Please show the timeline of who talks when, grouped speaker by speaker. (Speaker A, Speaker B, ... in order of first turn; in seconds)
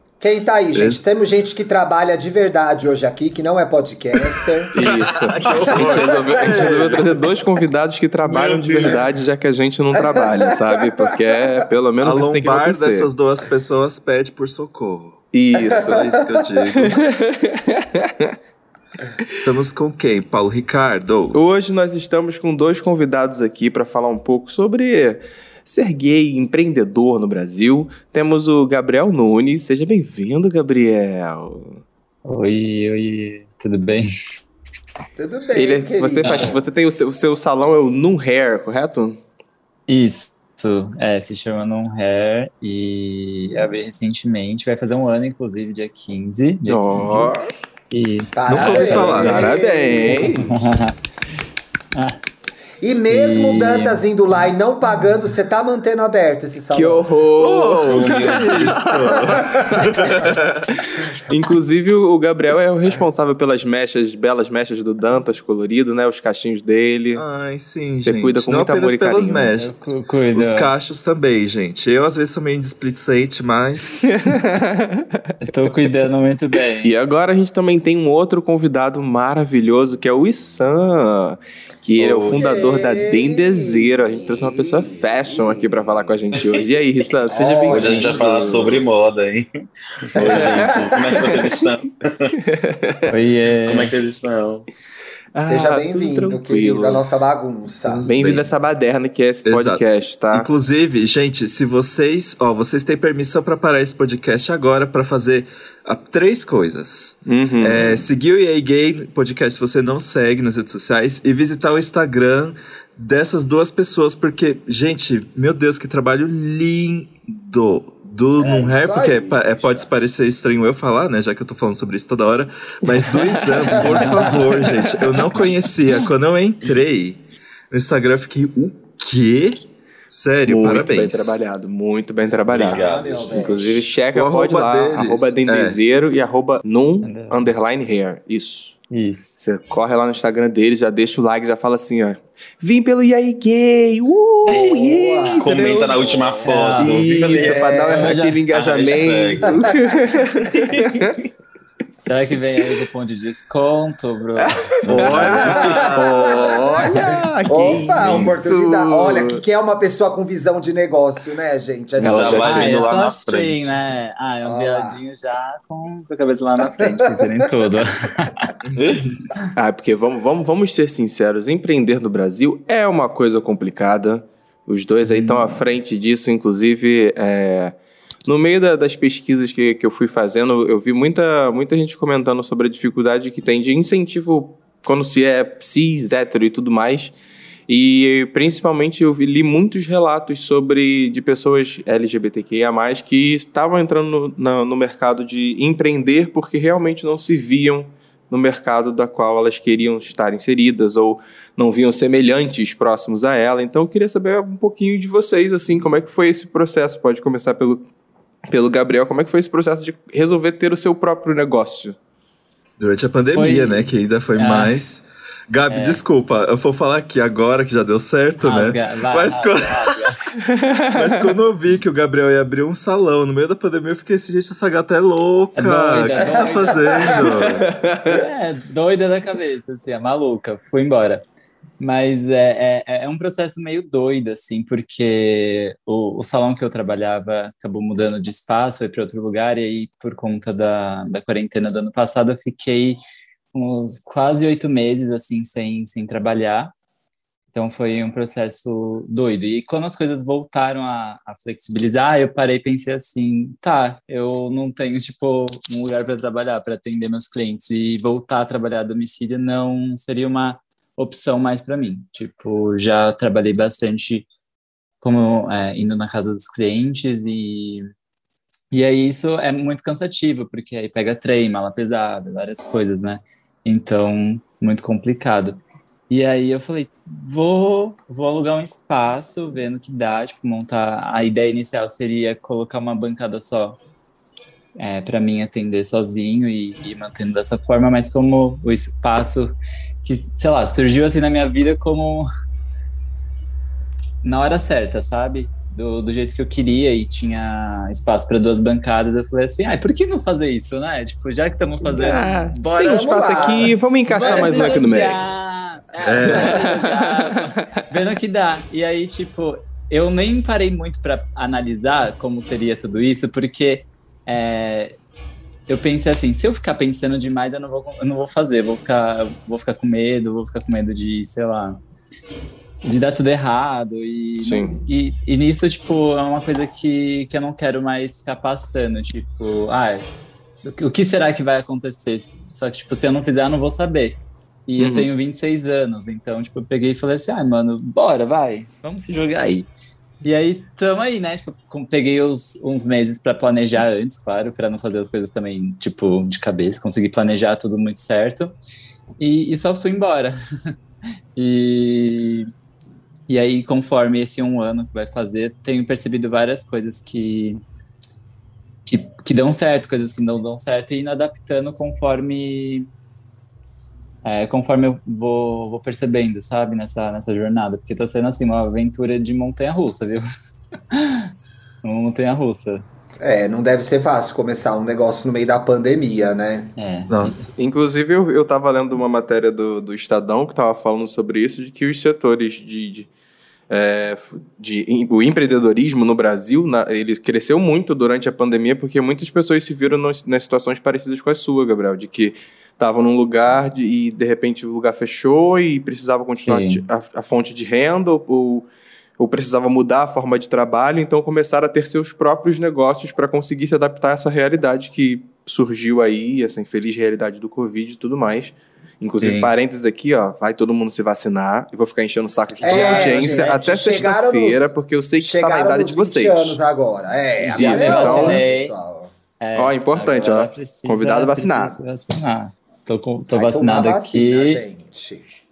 Speaker A: 0.2-5.0, 10.0-10.7, 35.1-36.6, 48.4-50.5, 52.8-57.1, 59.1-60.2, 82.3-86.4, 87.3-88.8, 90.2-91.8, 95.4-98.1, 118.4-119.9, 123.9-124.5, 132.5-133.9, 144.5-146.6, 147.3-148.1, 155.6-162.9, 164.4-165.0, 166.8-167.3, 302.8-305.1, 373.2-376.7, 412.6-419.1, 423.3-425.3
Speaker B: 4.7-13.1, 15.3-16.2, 16.7-18.3, 21.3-31.8, 35.4-39.2, 46.7-47.5, 48.7-50.7, 56.7-60.0, 60.7-67.2, 68.0-69.5, 74.0-75.2, 76.8-88.7, 90.2-90.7, 92.4-93.1, 95.3-97.1, 98.0-100.5, 107.2-108.0, 123.3-124.3, 130.5-138.8, 139.4-146.0, 146.7-151.1, 154.4-159.4, 162.0-162.9, 169.6-187.1, 187.7-207.9, 208.5-212.0, 220.4-221.2, 227.3-228.2, 301.9-305.2, 306.4-307.4, 324.4-324.8, 334.8-335.1, 377.6-383.1, 383.7-416.6, 417.5-418.4, 419.6-421.8
Speaker C: 4.8-7.2, 12.0-17.0, 19.4-21.4, 48.5-49.6, 57.4-60.7, 67.1-69.8, 70.3-74.1, 97.8-98.5, 99.4-131.3, 134.1-135.8, 154.8-156.4, 212.8-219.9, 220.9-227.7, 306.0-306.6, 377.1-377.4
Speaker D: 5.4-7.0, 8.2-9.1, 57.8-58.9, 82.0-82.4, 87.7-92.3, 93.6-94.7, 132.5-133.3, 144.4-144.8, 145.4-147.8, 148.5-149.6, 150.4-151.1, 162.0-163.8, 168.8-169.1, 412.8-413.1
Speaker E: 32.2-34.1, 36.2-36.6, 39.9-47.3, 47.9-49.4, 50.0-50.9, 53.1-54.1, 69.5-70.7, 75.4-77.0, 93.1-93.9, 137.0-137.5, 138.9-139.4, 146.4-148.4, 152.0-156.8, 162.4-168.5, 175.0-175.6, 213.3-214.8, 215.7-216.0, 218.4-220.2, 225.6-227.2, 228.0-231.2, 231.8-243.0, 243.5-246.7, 247.5-264.2, 265.0-267.9, 268.7-283.8, 284.8-292.3, 294.2-315.0, 315.7-321.8, 322.8-330.1, 330.6-339.7, 340.2-348.5, 349.2-350.7, 351.3-352.5, 353.3-357.6, 358.9-362.9, 364.2-370.2, 370.9-371.3, 371.8-372.8, 376.8-377.4, 396.4-396.8, 409.2-409.5, 412.6-413.5, 417.5-418.7, 419.4-424.6